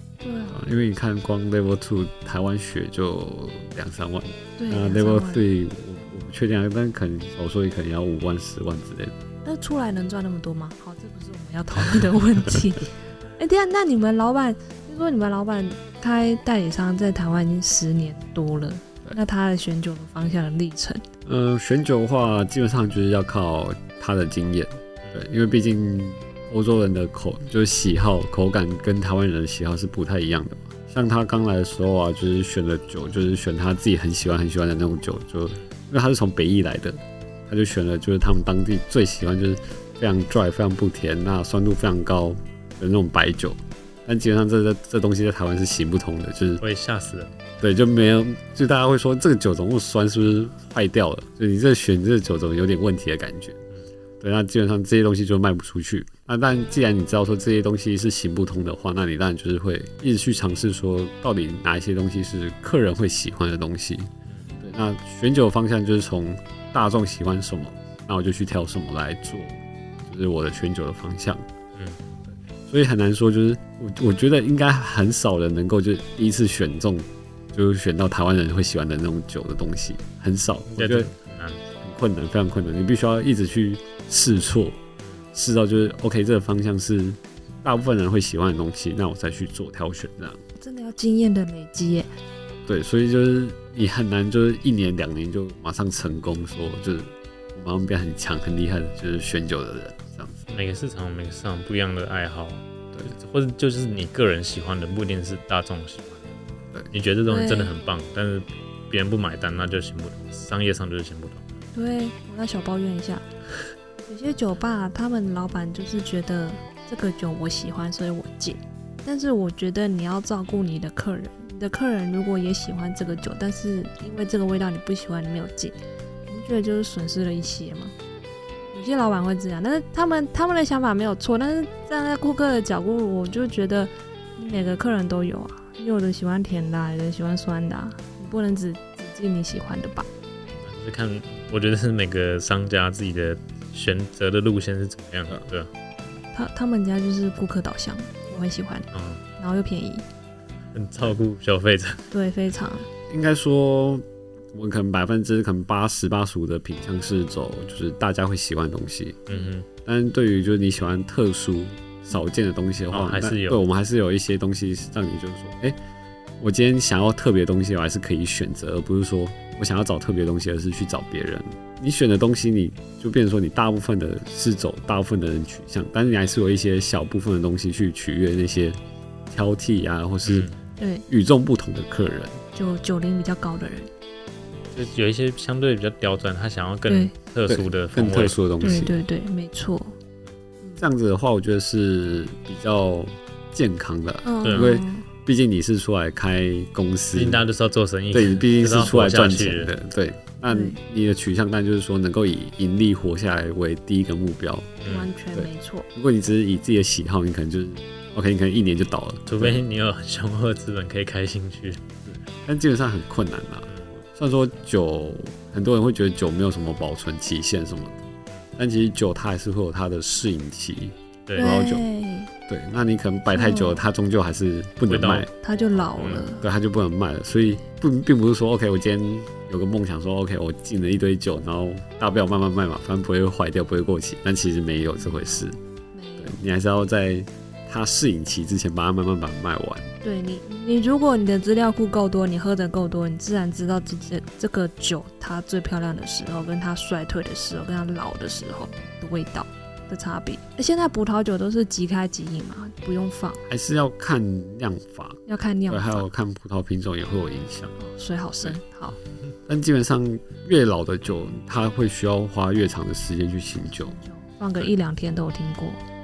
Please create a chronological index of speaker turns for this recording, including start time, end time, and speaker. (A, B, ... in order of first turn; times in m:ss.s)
0:00.2-0:00.6 A
0:00.5-0:09.1 B
0:04.6-0:05.4 A
0:09.4-0:21.0 A
0:21.3-0:46.6 B
0:46.6-0:47.4 C
0:47.6-0:53.6 B
0:54.2-1:11.4 B
1:04.3-1:04.6 C
1:12.7-1:21.1 B
1:20.7-1:21.6 C
1:21.8-1:24.8 B
1:25.3-1:30.4 B
1:30.6-1:32.1 A
1:32.7-1:40.4 B
1:40.5-1:51.4 C
1:47.3-1:47.7 A
1:51.7-1:53.2 A
1:54.1-2:05.8 A
2:06.3-2:07.9 A
2:08.7-2:20.1 A
2:20.6-2:25.7 C
2:26.3-2:30.0 A
2:28.9-2:29.2 C
2:30.7-2:32.0 C
2:32.1-2:32.9 A
2:33.1-2:39.2 B
2:39.3-2:39.7 C
2:39.8-2:45.8 B
2:42.9-2:43.6 C
2:46.4-3:00.5 B
3:00.2-3:00.6 C
3:00.8-3:01.1 A
3:01.1-3:02.4 B
3:02.6-3:03.9 A
3:04.8-3:08.4 C
3:06.9-3:07.1 A
3:07.5-3:09.0 B
3:08.6-3:09.9 A
3:10.8-3:17.4 B
3:14.2-3:15.0 A
3:14.4-3:14.7 C
3:17.1-3:19.7 C
3:18.1-3:24.7 B
3:20.5-3:20.8 A
3:24.8-3:25.1 C
3:24.9-3:25.9 A
3:25.3-3:29.6 B
3:29.3-3:31.8 C
3:32.1-3:38.1 B
3:38.6-3:41.8 B
3:41.3-3:41.6 C
3:41.4-3:42.3 A
3:42.5-3:45.3 B
3:43.3-3:43.8 A
3:44.9-3:45.3 C
3:45.4-3:46.4 A
3:45.9-3:46.2 C
3:46.4-3:55.6 B
3:55.9-3:56.4 A
3:56.2-3:59.9 B
4:00.0-4:13.4 A
4:13.5-4:17.8 B
4:15.3-4:16.0 A
4:17.8-4:19.0 A
4:19.5-4:23.9 B
4:23.8-4:25.8 A